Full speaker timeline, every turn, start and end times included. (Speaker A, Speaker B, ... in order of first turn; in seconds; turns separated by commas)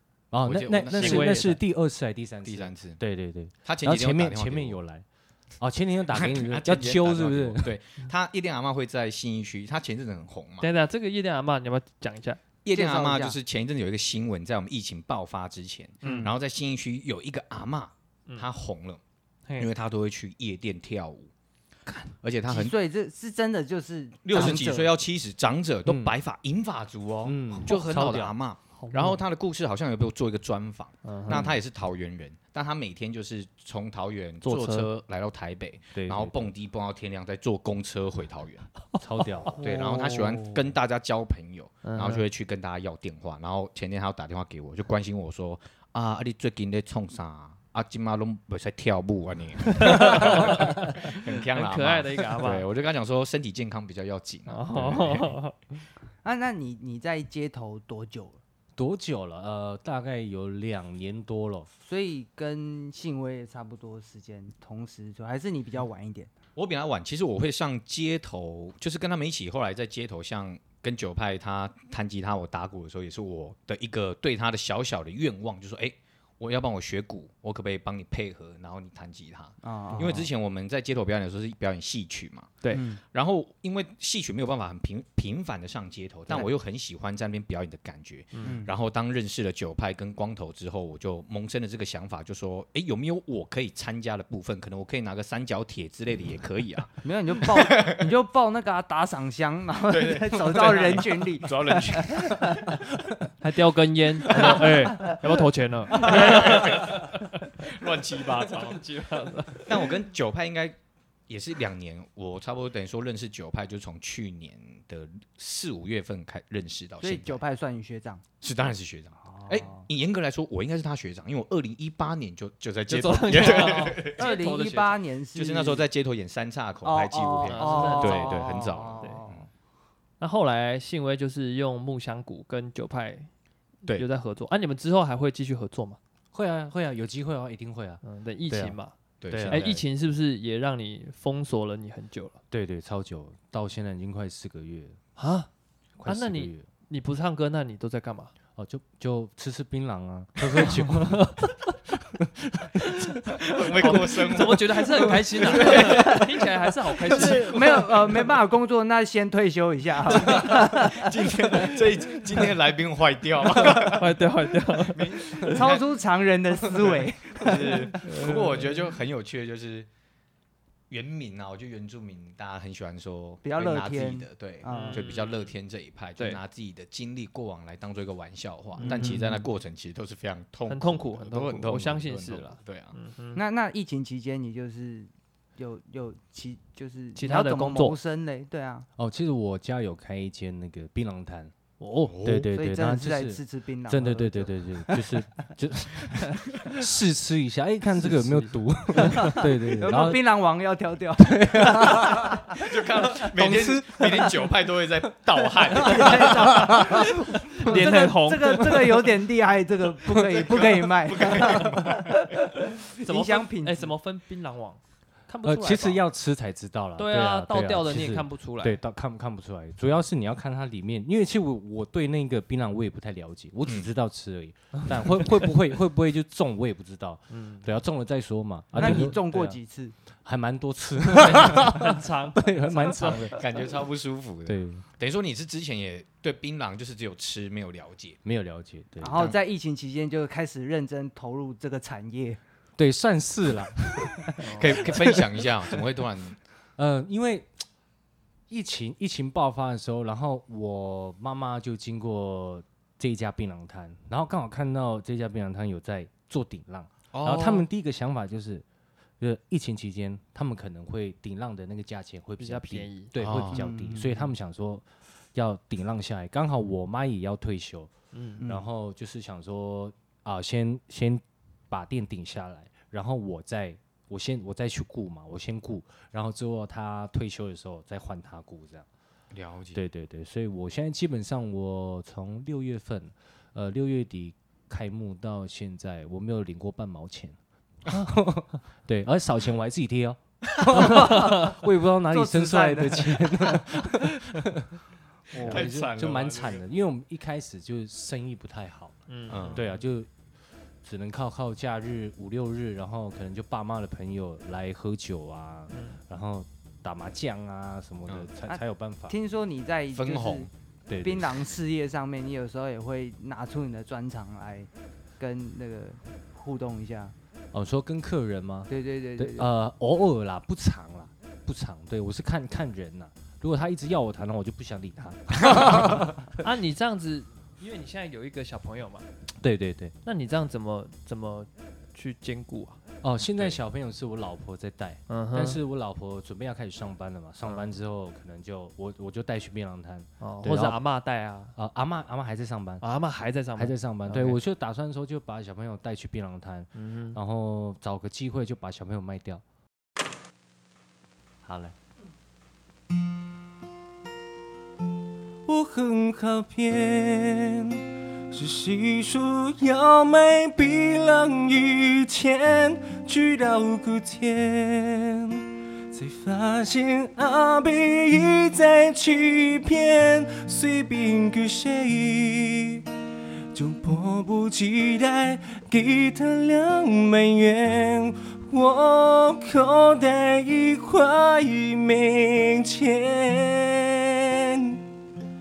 Speaker A: 0.3-5.0, Speaker B: 0.4-1.5, Speaker C: 0.9-1.6, Speaker B: 2.4-3.0, Speaker B: 3.6-4.8, Speaker A: 5.6-7.8, Speaker B: 6.1-10.7, Speaker C: 10.6-12.4, Speaker B: 12.6-19.0, Speaker D: 12.7-13.4, Speaker C: 16.0-16.3, Speaker D: 16.0-16.3, Speaker B: 19.6-21.3, Speaker B: 22.2-22.8, Speaker D: 22.5-24.9, Speaker B: 24.2-38.7, Speaker A: 25.8-26.1, Speaker A: 27.2-28.3, Speaker C: 28.7-29.2, Speaker C: 31.0-31.5, Speaker A: 31.3-31.6, Speaker C: 34.4-34.9, Speaker A: 35.9-36.5, Speaker A: 39.0-39.6, Speaker B: 39.6-55.3, Speaker D: 39.7-40.1, Speaker C: 41.8-42.2, Speaker C: 49.7-52.6, Speaker C: 54.5-55.7, Speaker D: 56.2-58.4, Speaker A: 58.8-61.7, Speaker D: 61.8-66.3, Speaker B: 66.5-98.1, Speaker D: 79.6-80.3, Speaker D: 82.7-83.0, Speaker C: 88.3-88.6, Speaker D: 88.4-88.7, Speaker D: 97.0-102.7, Speaker B: 99.9-102.7, Speaker C: 103.4-107.4, Speaker B: 104.3-104.7, Speaker B: 105.9-108.8, Speaker C: 108.4-109.8, Speaker B: 109.7-117.4, Speaker D: 117.0-118.2, Speaker B: 118.4-124.2, Speaker D: 119.2-119.8, Speaker C: 122.9-125.0, Speaker D: 123.4-125.8, Speaker B: 125.3-129.4, Speaker D: 126.8-129.4, Speaker C: 127.4-129.2, Speaker C: 130.2-133.3, Speaker C: 133.9-136.0, Speaker A: 136.3-138.8, Speaker C: 138.0-138.9, Speaker B: 139.2-139.8, Speaker A: 139.3-139.8, Speaker C: 139.4-142.4, Speaker A: 142.5-145.0, Speaker C: 145.2-145.5, Speaker A: 146.0-146.7, Speaker C: 146.1-148.3, Speaker A: 148.6-151.4, Speaker C: 150.7-151.6, Speaker A: 151.9-153.3, Speaker B: 153.2-156.5, Speaker C: 153.8-157.8, Speaker D: 155.6-156.1, Speaker B: 157.0-158.3, Speaker D: 157.1-161.1, Speaker B: 160.1-165.8, Speaker C: 160.3-160.6, Speaker C: 163.6-165.6, Speaker D: 165.4-168.4, Speaker B: 166.8-169.9, Speaker C: 168.0-168.5, Speaker B: 170.9-182.9, Speaker D: 173.4-175.1, Speaker C: 174.7-175.5, Speaker C: 178.8-179.3, Speaker D: 178.8-179.2, Speaker C: 180.7-183.4, Speaker D: 183.3-188.9, Speaker C: 187.2-188.0, Speaker A: 189.0-200.2, Speaker B: 192.1-192.5, Speaker D: 192.4-195.2, Speaker C: 198.0-199.4, Speaker D: 199.1-202.6, Speaker A: 201.2-202.4, Speaker B: 202.5-206.7, Speaker A: 203.1-204.5, Speaker D: 205.7-213.9, Speaker A: 205.8-207.2, Speaker C: 206.9-209.0, Speaker B: 210.2-212.4, Speaker C: 213.0-216.0, Speaker A: 215.4-229.6, Speaker C: 217.0-218.8, Speaker C: 227.3-227.7, Speaker C: 228.8-229.1, Speaker D: 228.8-229.9, Speaker A: 230.2-233.4, Speaker C: 231.1-233.4, Speaker B: 233.3-238.2, Speaker A: 234.4-234.8, Speaker A: 238.2-239.3, Speaker D: 239.0-242.4, Speaker A: 242.8-245.2, Speaker C: 244.4-244.9, Speaker B: 244.6-246.4, Speaker A: 246.8-247.5, Speaker A: 248.5-258.6, Speaker B: 257.1-257.7, Speaker A: 259.2-267.9, Speaker C: 262.4-263.1, Speaker B: 263.2-263.6, Speaker D: 263.5-264.3, Speaker C: 268.1-268.4, Speaker A: 268.4-278.9, Speaker B: 279.3-279.8, Speaker A: 279.7-294.8, Speaker D: 290.6-293.8, Speaker D: 295.3-295.7, Speaker B: 295.3-296.6, Speaker A: 295.3-300.1, Speaker C: 299.1-299.7, Speaker B: 299.3-299.7, Speaker A: 300.8-309.1, Speaker C: 305.7-306.0, Speaker D: 308.4-310.5, Speaker B: 309.9-310.5, Speaker A: 310.9-311.4, Speaker D: 311.0-314.7, Speaker D: 315.2-317.1, Speaker A: 317.5-326.4, Speaker D: 318.7-319.5, Speaker C: 326.4-329.1, Speaker A: 329.4-329.9, Speaker C: 330.1-332.8, Speaker A: 333.0-340.8, Speaker C: 335.1-335.6, Speaker C: 337.4-337.7, Speaker C: 340.2-341.6, Speaker A: 341.6-342.8, Speaker C: 342.8-344.4, Speaker A: 343.6-349.4, Speaker C: 346.7-347.2, Speaker A: 351.4-351.8, Speaker A: 355.4-372.9, Speaker A: 373.5-384.9